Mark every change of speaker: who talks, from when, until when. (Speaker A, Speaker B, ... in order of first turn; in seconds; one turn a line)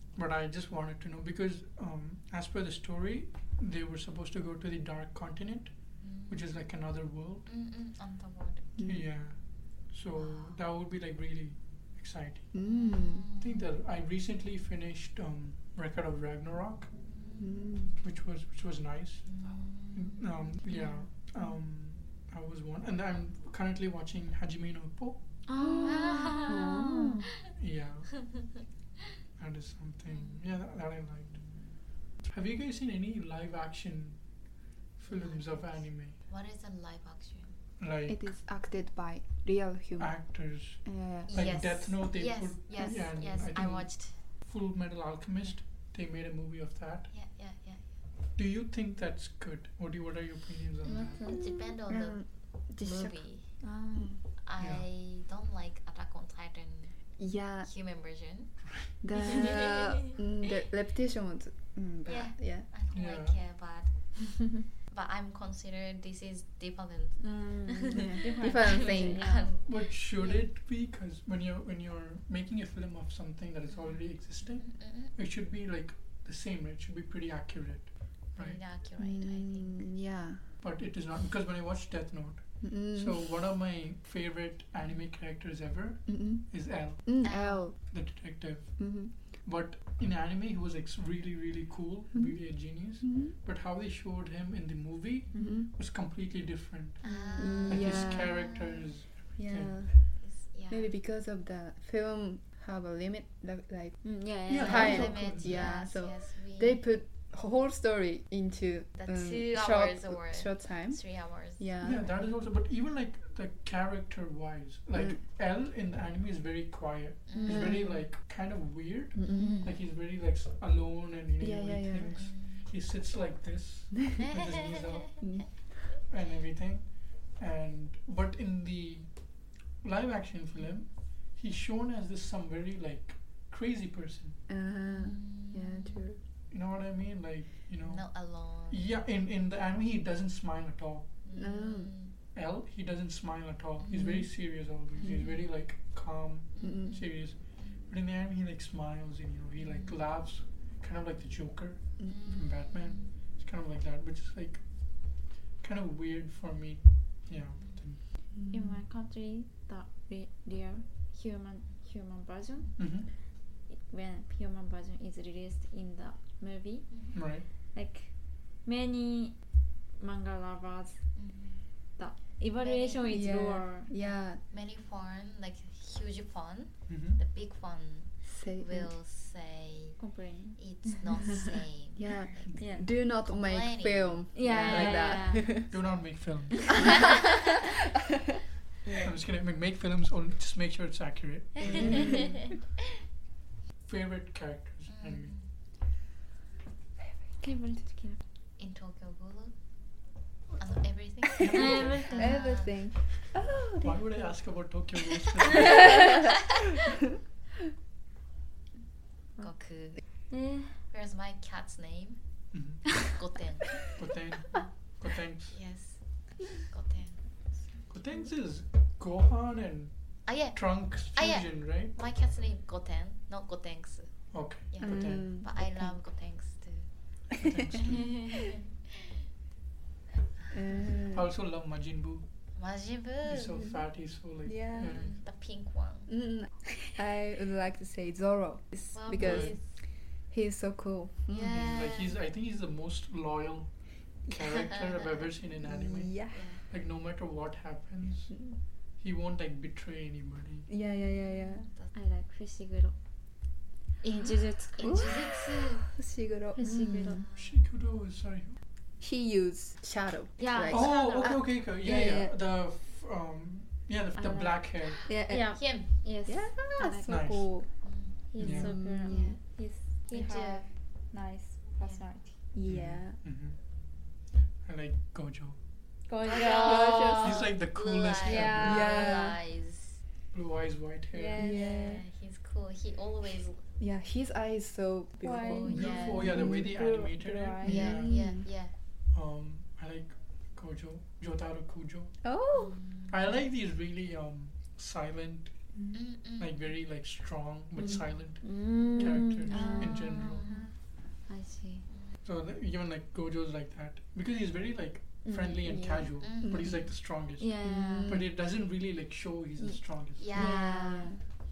Speaker A: 0.1-7.5
Speaker B: 6.0-6.6
Speaker B: 7.5-8.7
Speaker C: 8.8-9.1
Speaker A: 8.8-12.5
Speaker B: 10.2-10.6
Speaker C: 12.5-13.3
Speaker B: 12.6-13.7
Speaker A: 13.4-16.9
Speaker B: 17.1-17.5
Speaker C: 17.4-17.9
Speaker A: 18.0-25.2
Speaker B: 19.3-21.0
Speaker D: 25.5-27.3
Speaker C: 25.6-27.3
Speaker B: 25.8-26.7
Speaker A: 27.6-28.4
Speaker A: 29.4-34.2
Speaker B: 30.1-30.4
Speaker A: 35.0-36.2
Speaker B: 35.1-37.6
Speaker A: 37.8-38.2
Speaker C: 38.1-41.5
Speaker A: 40.0-47.1
Speaker B: 41.3-44.2
Speaker B: 47.1-47.9
Speaker A: 48.4-51.2
Speaker B: 50.8-53.6
Speaker D: 50.9-51.5
Speaker C: 51.3-53.2
Speaker D: 53.6-54.2
Speaker B: 54.4-57.0
Speaker A: 54.6-54.9
Speaker C: 57.2-57.7
Speaker B: 57.6-59.9
Speaker C: 59.0-62.7
Speaker B: 62.0-64.4
Speaker A: 62.9-63.4
Speaker B: 64.9-70.4
Speaker D: 67.2-69.5
Speaker C: 68.0-69.4
Speaker A: 69.6-78.6
Speaker B: 73.7-75.1
Speaker B: 78.3-79.9
Speaker C: 79.0-80.4
Speaker A: 80.6-97.0
Speaker C: 82.6-83.3
Speaker C: 86.1-87.9
Speaker B: 87.2-87.7
Speaker C: 88.8-89.2
Speaker C: 92.1-93.3
Speaker D: 95.3-95.6
Speaker C: 95.4-95.7
Speaker B: 97.0-98.7
Speaker D: 97.0-97.6
Speaker C: 97.3-98.4
Speaker A: 97.7-99.8
Speaker C: 99.4-112.0
Speaker B: 100.2-100.9
Speaker D: 104.0-105.1
Speaker A: 104.5-105.8
Speaker B: 104.6-106.8
Speaker B: 109.0-111.6
Speaker A: 111.8-129.2
Speaker C: 115.0-115.2
Speaker B: 117.3-118.0
Speaker C: 117.4-117.9
Speaker C: 119.1-119.6
Speaker B: 119.3-119.8
Speaker C: 121.4-122.3
Speaker B: 122.1-122.7
Speaker B: 124.2-125.3
Speaker C: 125.2-125.8
Speaker A: 129.8-134.4
Speaker C: 134.5-136.2
Speaker B: 134.9-136.0
Speaker A: 136.5-141.1
Speaker B: 137.8-138.9
Speaker B: 141.2-142.1
Speaker C: 141.4-141.9
Speaker A: 142.3-158.0
Speaker B: 143.9-144.2
Speaker C: 143.9-144.2
Speaker B: 145.0-145.3
Speaker B: 146.6-147.0
Speaker C: 146.6-147.0
Speaker B: 149.6-149.9
Speaker B: 152.1-153.1
Speaker C: 158.4-158.8
Speaker D: 158.5-162.8
Speaker A: 162.8-163.1
Speaker D: 163.7-169.4
Speaker A: 167.1-167.4
Speaker D: 170.0-171.1
Speaker B: 171.1-171.6
Speaker D: 171.9-173.9
Speaker B: 172.6-173.2
Speaker C: 173.1-174.4
Speaker B: 173.9-180.1
Speaker A: 176.9-177.2
Speaker C: 178.3-178.9
Speaker D: 180.0-181.5
Speaker B: 180.6-185.1
Speaker C: 181.9-185.7
Speaker D: 182.6-182.9
Speaker D: 184.3-185.7
Speaker A: 184.7-187.1
Speaker A: 189.0-192.2
Speaker C: 191.6-192.5
Speaker B: 191.7-192.1
Speaker A: 193.8-195.3
Speaker B: 194.9-195.5
Speaker D: 197.4-198.2
Speaker B: 198.6-199.6
Speaker B: 200.6-202.8
Speaker A: 201.4-202.2
Speaker D: 201.5-202.5
Speaker C: 202.1-203.9
Speaker A: 203.8-206.4
Speaker B: 205.6-206.3
Speaker B: 209.4-210.0
Speaker D: 210.3-210.8
Speaker B: 210.9-212.2
Speaker A: 212.5-213.0
Speaker B: 213.0-213.9
Speaker A: 213.9-215.6
Speaker B: 215.5-217.7
Speaker A: 217.9-221.9
Speaker B: 220.3-228.7
Speaker A: 224.3-225.3
Speaker C: 224.8-225.9
Speaker A: 227.4-228.4
Speaker B: 230.5-231.0
Speaker C: 230.5-231.3
Speaker A: 231.1-232.2
Speaker B: 232.6-233.7
Speaker A: 233.3-235.2
Speaker C: 234.4-235.0
Speaker B: 234.7-236.1
Speaker C: 236.1-241.6
Speaker B: 238.9-239.8
Speaker A: 239.1-239.6
Speaker B: 241.3-242.1
Speaker A: 241.5-250.7
Speaker C: 245.7-246.4
Speaker B: 246.3-246.6
Speaker C: 250.7-251.7
Speaker B: 251.5-251.9
Speaker D: 251.9-252.9
Speaker B: 254.0-255.9
Speaker D: 254.1-255.1
Speaker C: 254.8-257.2
Speaker D: 256.6-257.3
Speaker B: 256.9-257.6
Speaker A: 257.4-258.6
Speaker C: 259.0-262.4
Speaker D: 260.4-261.4
Speaker A: 260.7-265.1
Speaker D: 264.2-267.2
Speaker C: 265.1-265.7
Speaker B: 265.5-265.9
Speaker C: 266.3-267.8
Speaker A: 267.1-267.5
Speaker B: 267.8-268.2
Speaker D: 268.3-272.4
Speaker A: 268.4-268.9
Speaker C: 268.4-269.4
Speaker B: 270.1-270.7
Speaker C: 272.5-273.2
Speaker A: 272.7-273.6
Speaker A: 274.6-275.6
Speaker D: 276.1-277.2
Speaker B: 276.3-280.0
Speaker C: 276.3-277.5
Speaker A: 277.2-279.0
Speaker D: 278.2-278.8
Speaker C: 278.6-279.4
Speaker A: 280.3-281.5
Speaker D: 281.1-282.0
Speaker C: 281.4-282.0
Speaker B: 281.5-283.6
Speaker C: 283.8-286.7
Speaker D: 285.2-287.9
Speaker B: 285.4-286.4
Speaker A: 285.6-288.2
Speaker C: 287.6-288.4
Speaker B: 287.6-288.7
Speaker A: 289.1-292.2
Speaker C: 292.2-292.8
Speaker B: 292.5-293.4
Speaker A: 293.1-295.5
Speaker B: 295.9-296.6
Speaker A: 296.4-300.4
Speaker C: 297.8-298.1
Speaker D: 297.8-300.7
Speaker C: 299.0-300.7
Speaker B: 299.6-300.7
Speaker D: 301.3-301.9
Speaker A: 302.2-310.3
Speaker D: 305.2-305.7
Speaker C: 305.7-306.9
Speaker B: 306.2-306.9
Speaker D: 307.4-308.2
Speaker C: 307.6-308.3
Speaker B: 310.2-311.1
Speaker C: 310.3-311.2
Speaker D: 310.4-311.1